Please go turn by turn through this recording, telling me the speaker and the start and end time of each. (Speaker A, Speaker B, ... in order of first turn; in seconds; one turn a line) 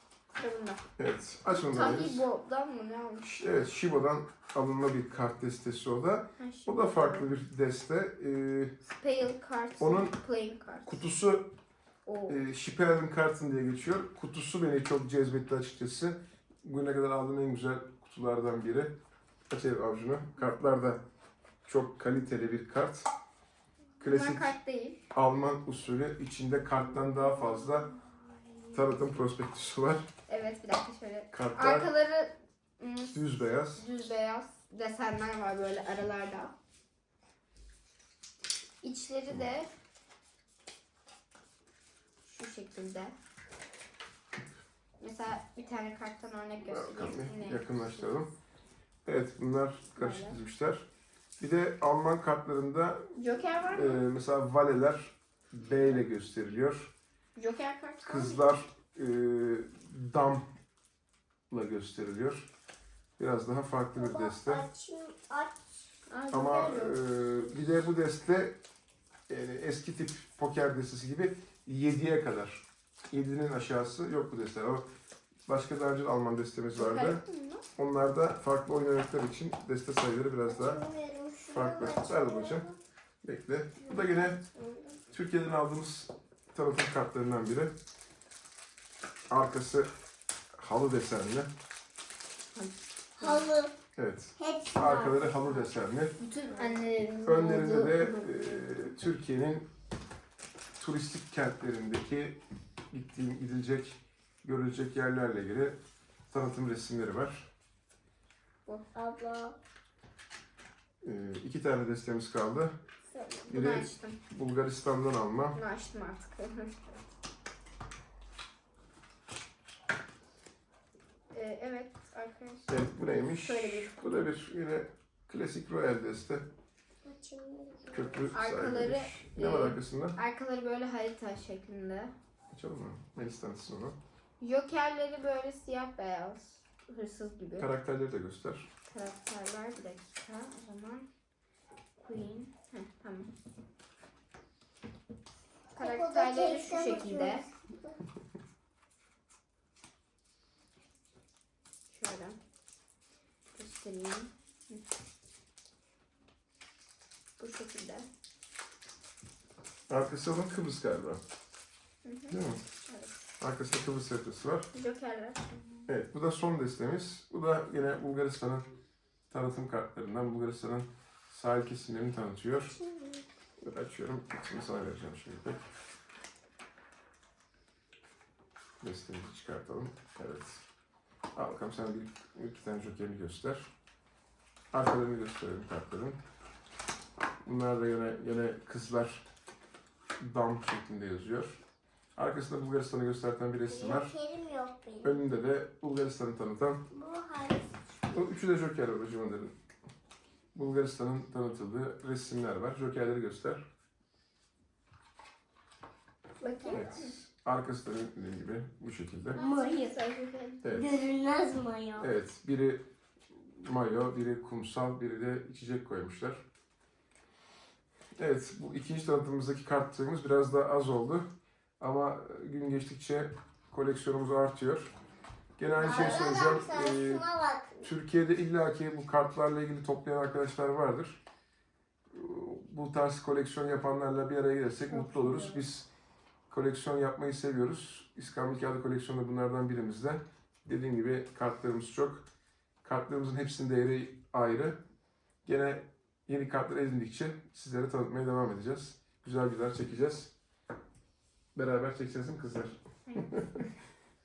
Speaker A: 0.3-0.8
Speaker B: 1.0-2.2
Speaker A: 1.5-3.2
Speaker B: 3.2-8.8
Speaker A: 6.4-7.3
Speaker A: 8.8-10.9
Speaker B: 9.8-10.1
Speaker B: 10.8-11.5
Speaker A: 12.1-12.3
Speaker B: 12.3-18.9
Speaker B: 19.5-21.0
Speaker B: 21.6-23.1
Speaker B: 24.0-24.5
Speaker A: 24.0-25.0
Speaker B: 25.1-27.9
Speaker A: 27.4-27.6
Speaker B: 28.7-30.1
Speaker A: 30.3-36.5
Speaker B: 31.3-31.9
Speaker B: 33.1-33.8
Speaker A: 38.8-39.7
Speaker A: 42.2-43.1
Speaker A: 45.0-48.2
Speaker B: 46.7-48.3
Speaker B: 49.0-50.8
Speaker A: 50.0-50.4
Speaker B: 51.4-53.1
Speaker A: 53.1-54.0
Speaker B: 53.7-56.9
Speaker A: 57.3-58.5
Speaker B: 58.0-60.4
Speaker B: 61.5-62.5
Speaker B: 63.2-64.6
Speaker C: 63.9-65.9
Speaker A: 66.1-67.0
Speaker B: 66.3-68.6
Speaker B: 69.3-74.8
Speaker B: 75.5-77.2
Speaker A: 76.8-77.6
Speaker B: 77.8-80.8
Speaker C: 80.5-82.8
Speaker B: 81.5-82.6
Speaker B: 83.2-84.4
Speaker C: 83.8-85.0
Speaker B: 85.1-87.7
Speaker B: 89.3-89.9
Speaker B: 90.5-91.5
Speaker A: 92.5-93.4
Speaker C: 93.2-93.8
Speaker B: 94.0-96.2
Speaker C: 94.4-95.4
Speaker A: 94.8-95.5
Speaker A: 96.2-98.9
Speaker C: 96.5-96.8
Speaker B: 97.2-99.7
Speaker B: 100.8-102.4
Speaker B: 102.9-105.8
Speaker B: 106.3-107.5
Speaker C: 108.9-109.6
Speaker B: 111.0-112.7
Speaker C: 113.0-113.5
Speaker A: 113.5-114.2
Speaker B: 113.5-115.6
Speaker A: 115.5-117.0
Speaker A: 121.3-124.0
Speaker B: 122.7-126.4
Speaker C: 127.0-128.3
Speaker B: 127.9-130.2
Speaker A: 128.3-132.1
Speaker B: 132.5-134.0
Speaker A: 134.4-137.7
Speaker B: 137.6-138.7
Speaker A: 138.9-141.1
Speaker A: 142.0-143.3
Speaker C: 145.7-148.0
Speaker A: 145.8-147.4
Speaker A: 151.9-152.4
Speaker A: 153.6-154.8
Speaker A: 157.4-158.1
Speaker B: 159.9-161.2
Speaker A: 162.0-163.1
Speaker B: 162.3-162.6
Speaker B: 163.4-164.7
Speaker A: 164.7-165.6
Speaker B: 165.9-168.6
Speaker B: 169.3-172.8
Speaker C: 172.7-173.3
Speaker B: 173.6-175.6
Speaker B: 178.8-180.6
Speaker B: 181.3-183.7
Speaker B: 184.7-186.2
Speaker B: 187.4-189.2
Speaker B: 190.2-191.6
Speaker B: 192.2-194.1
Speaker C: 193.7-195.2
Speaker B: 195.0-196.8
Speaker C: 196.9-198.3
Speaker B: 198.1-199.5
Speaker B: 200.5-203.6
Speaker C: 206.4-207.0
Speaker A: 206.4-207.1
Speaker B: 206.7-209.4
Speaker A: 209.3-210.6
Speaker C: 209.3-210.0
Speaker B: 210.6-211.0
Speaker C: 210.7-212.1
Speaker B: 212.0-216.4
Speaker B: 218.2-221.3
Speaker B: 221.8-224.9
Speaker B: 225.6-227.2
Speaker A: 225.8-226.3
Speaker C: 225.8-227.9
Speaker B: 227.8-231.2
Speaker B: 232.1-235.9
Speaker A: 234.9-235.6
Speaker B: 236.5-242.2
Speaker B: 242.8-244.8
Speaker B: 245.4-250.3
Speaker B: 251.5-253.7
Speaker A: 253.1-253.7